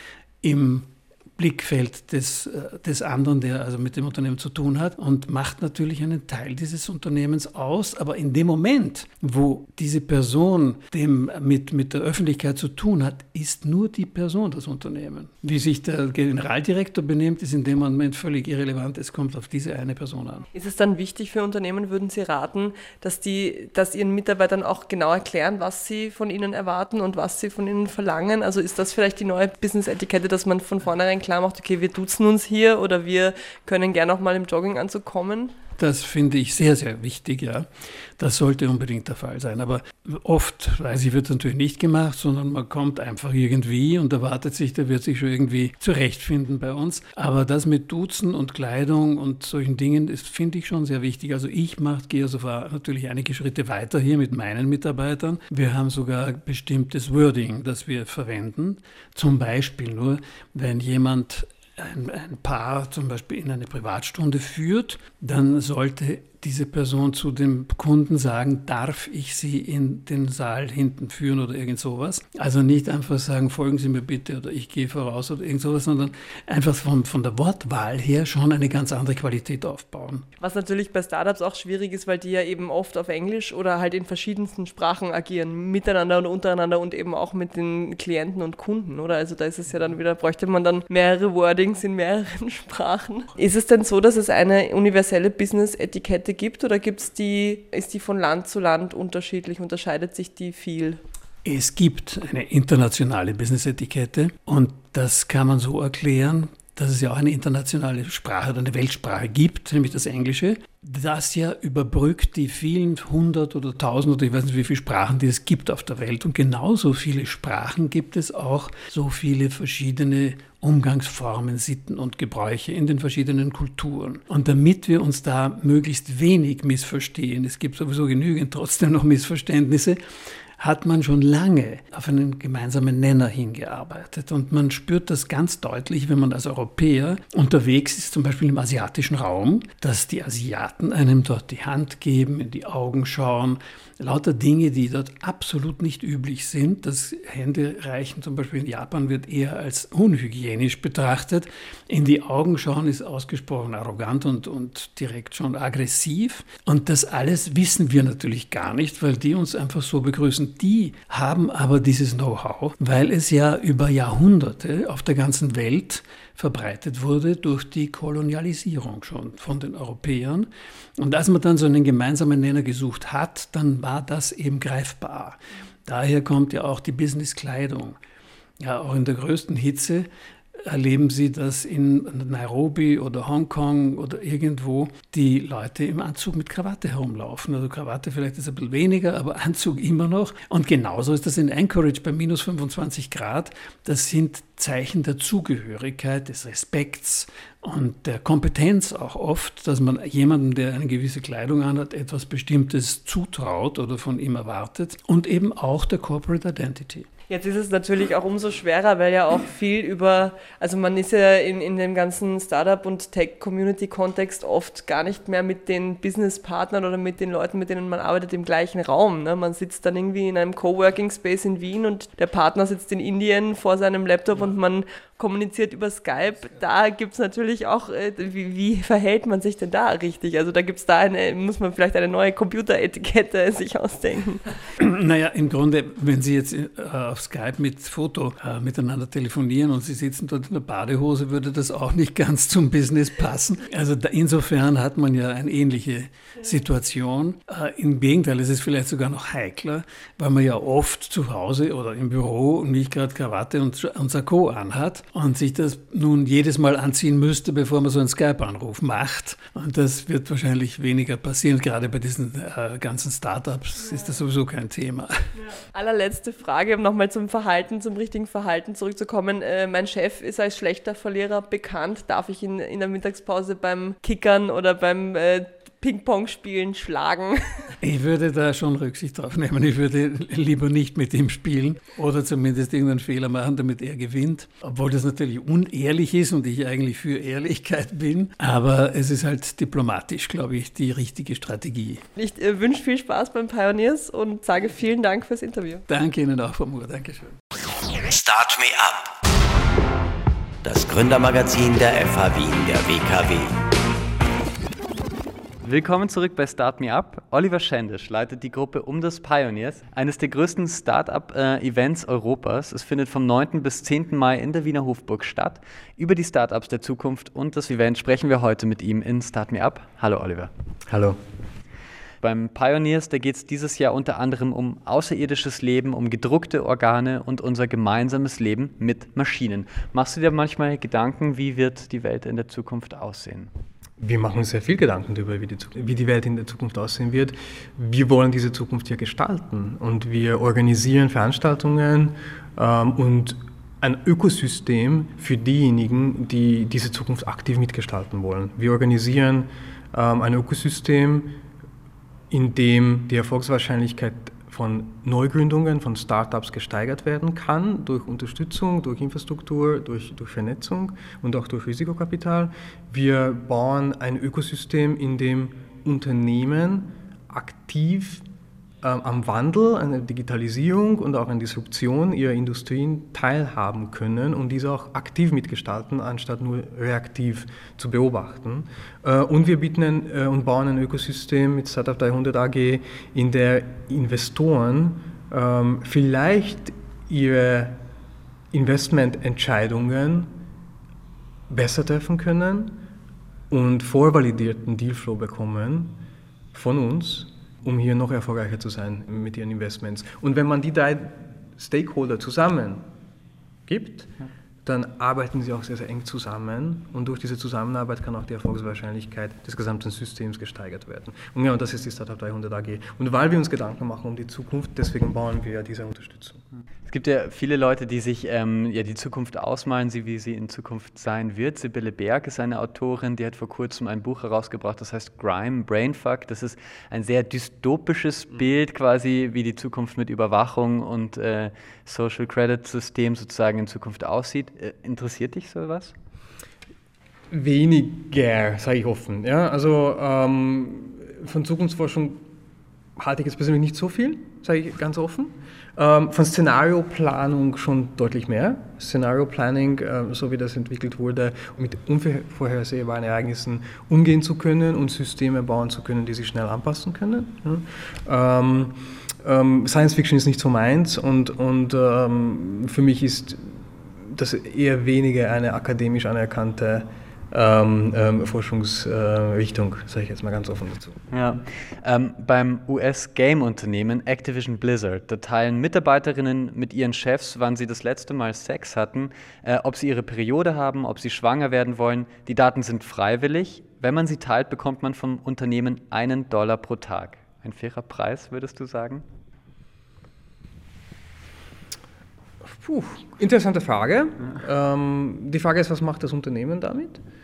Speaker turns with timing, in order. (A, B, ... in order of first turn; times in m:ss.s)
0:00.4-0:20.4 A
0:20.5-0:35.5 B
0:35.8-1:20.2 A
1:20.4-1:41.0 B
1:41.4-2:10.0 A
2:10.6-2:58.0 A
2:58.6-3:00.1 A
3:00.6-3:27.0 A
3:27.3-3:54.4 B
3:54.8-4:25.1 A
4:25.5-4:37.6 B
4:37.8-4:52.0 A
4:52.2-4:55.8 B
4:55.9-4:57.4 A
4:57.9-4:59.1 C
5:00.6-5:03.6 C
5:05.6-5:20.5 D
5:20.9-5:21.2 E
5:22.2-5:33.5 D
5:34.0-5:51.4 E
5:52.3-6:08.2 E
6:08.8-6:27.8 E
6:28.5-6:30.4 E
6:31.5-6:32.8 E
6:33.5-6:36.0 E
6:36.5-6:42.8 E
6:43.7-6:44.1 E
6:44.6-6:56.4 E
6:56.9-7:15.9 D
7:17.3-7:22.2 E
7:23.0-7:51.0 E
7:51.1-8:09.0 D
8:12.4-8:17.0 E